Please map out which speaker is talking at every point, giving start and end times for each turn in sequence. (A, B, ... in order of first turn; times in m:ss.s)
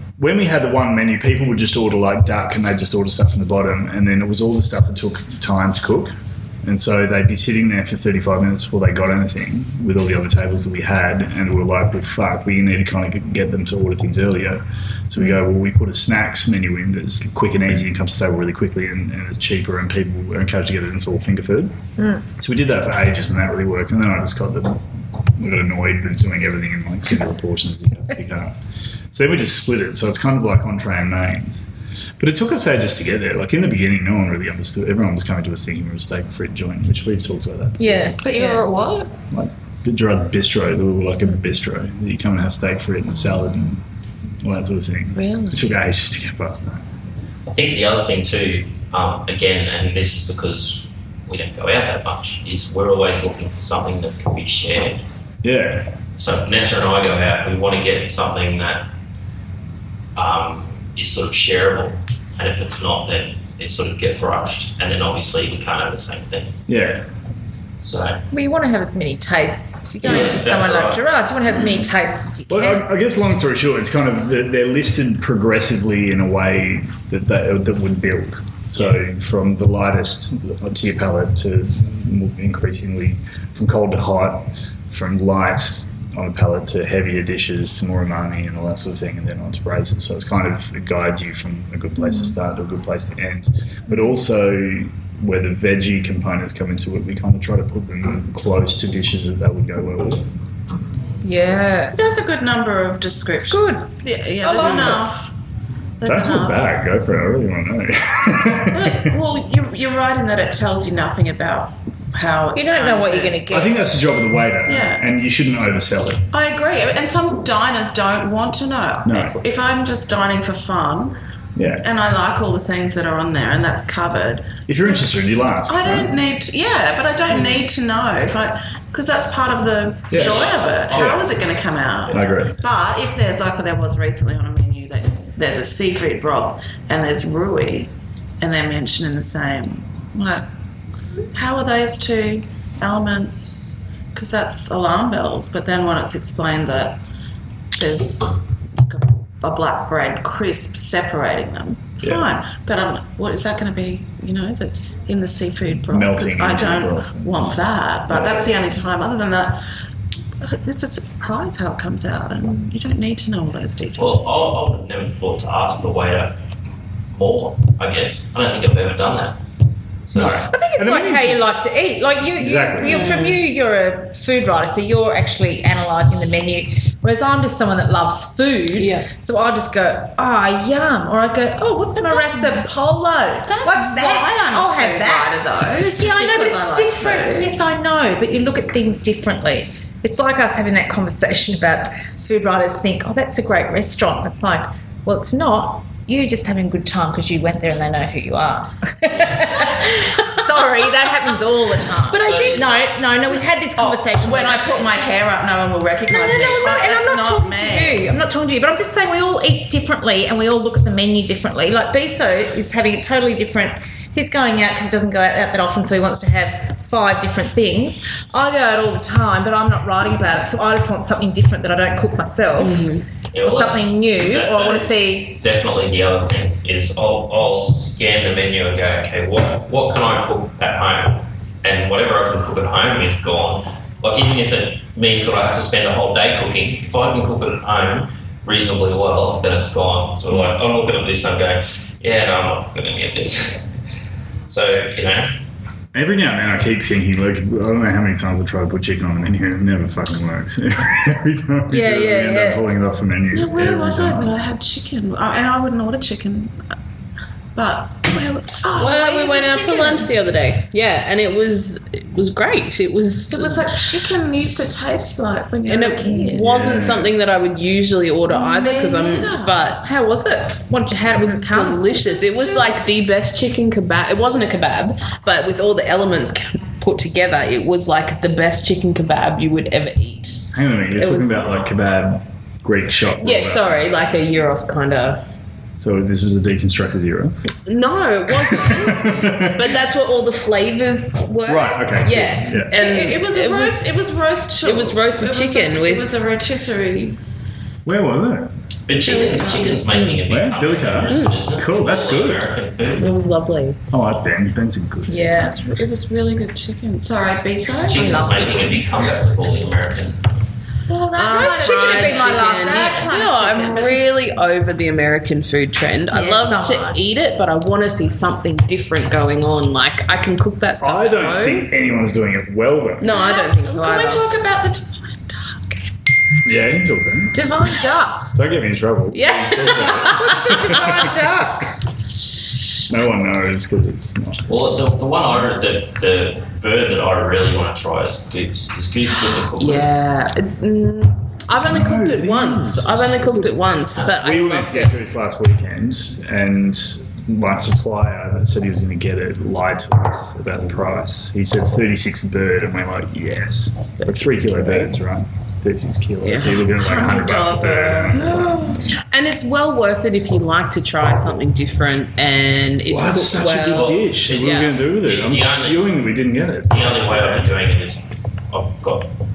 0:00.2-0:21.7 A
0:22.0-0:22.2 B
0:22.4-0:24.8 A
0:25.3-0:28.6 A
0:29.1-0:38.2 A
0:37.8-0:38.1 B
0:38.2-0:39.1 C
0:39.3-0:43.8 A
0:44.4-0:46.8 A
0:45.1-0:45.6 C
0:47.4-0:55.0 D
0:55.4-0:55.9 A
0:56.2-0:58.8 D
1:00.2-1:06.6 D
1:06.7-1:07.0 A
1:07.8-1:08.2 D
1:08.3-1:12.9 B
1:10.0-1:11.0 D
1:12.5-1:40.3 A
1:32.0-1:32.4 B
1:41.2-1:41.9 B
1:41.9-1:45.3 C
1:43.4-1:43.9 B
1:44.4-1:45.1 B
1:46.0-1:46.6 C
1:46.0-1:49.1 A
1:48.7-1:53.5 C
1:52.5-1:53.9 B
1:53.5-1:56.3 A
1:54.6-1:55.0 C
1:56.3-2:01.2 C
1:59.0-1:59.4 A
2:01.6-2:01.9 A
2:01.8-2:04.6 C
2:04.7-2:06.2 A
2:05.7-2:20.4 C
2:10.1-2:11.3 A
2:10.1-2:10.7 D
2:12.1-2:12.6 A
2:21.3-2:27.0 C
2:27.7-2:39.6 C
2:35.9-2:37.5 A
2:38.1-2:38.5 A
2:40.4-2:44.3 C
2:44.0-2:46.4 D
2:47.1-2:49.4 D
2:50.0-2:50.5 D
2:50.1-2:51.4 A
2:50.5-3:25.0 B
2:52.4-2:53.2 A
2:52.8-2:53.4 E
2:58.7-2:59.1 E
3:01.9-3:02.6 C
3:03.4-3:07.6 C
3:22.1-3:22.6 E
3:22.1-3:22.7 D
3:23.8-3:28.0 C
3:26.1-3:45.4 B
3:42.6-3:43.0 E
3:43.3-4:03.7 D
4:04.5-4:05.4 D
4:05.9-4:14.4 A
4:11.7-4:12.6 E
4:13.3-4:16.6 C
4:17.5-4:20.1 C
4:18.7-4:23.7 E
4:23.3-4:26.5 C
4:25.6-4:41.5 E
4:26.4-4:27.1 A
4:28.4-4:29.6 C
4:30.6-4:31.8 B
4:32.0-4:32.8 C
4:40.5-4:43.8 A
4:43.2-4:45.2 E
4:45.7-4:47.6 A
4:47.6-4:53.9 E
4:48.3-4:49.8 A
4:51.4-4:52.8 A
4:52.7-4:57.2 C
4:54.6-4:56.3 E
4:57.8-4:58.5 A
4:58.9-5:03.2 D
4:59.1-5:00.2 E
4:59.1-4:59.8 C
5:00.2-5:02.5 A
5:01.1-5:01.3 E
5:02.9-5:03.8 E
5:03.9-5:05.6 A
5:05.2-5:08.9 C
5:07.8-5:10.4 D
5:10.9-5:14.0 C
5:11.1-5:21.7 E
5:11.3-5:13.1 B
5:16.1-5:17.0 B
5:20.8-5:23.1 A
5:23.0-5:24.2 E
5:23.1-5:25.8 C
5:26.4-5:27.5 A
5:27.3-5:28.3 B
5:28.3-5:31.2 A
5:29.1-5:30.5 E
5:30.0-5:31.8 B
5:32.9-5:34.4 A
5:34.5-5:40.0 D
5:39.5-5:44.9 E
5:41.6-5:58.9 A
5:53.8-5:55.0 E
5:56.2-5:56.6 E
5:56.7-5:58.5 C
5:58.1-6:04.7 E
6:02.9-6:07.5 A
6:03.5-6:05.9 D
6:06.7-6:09.1 D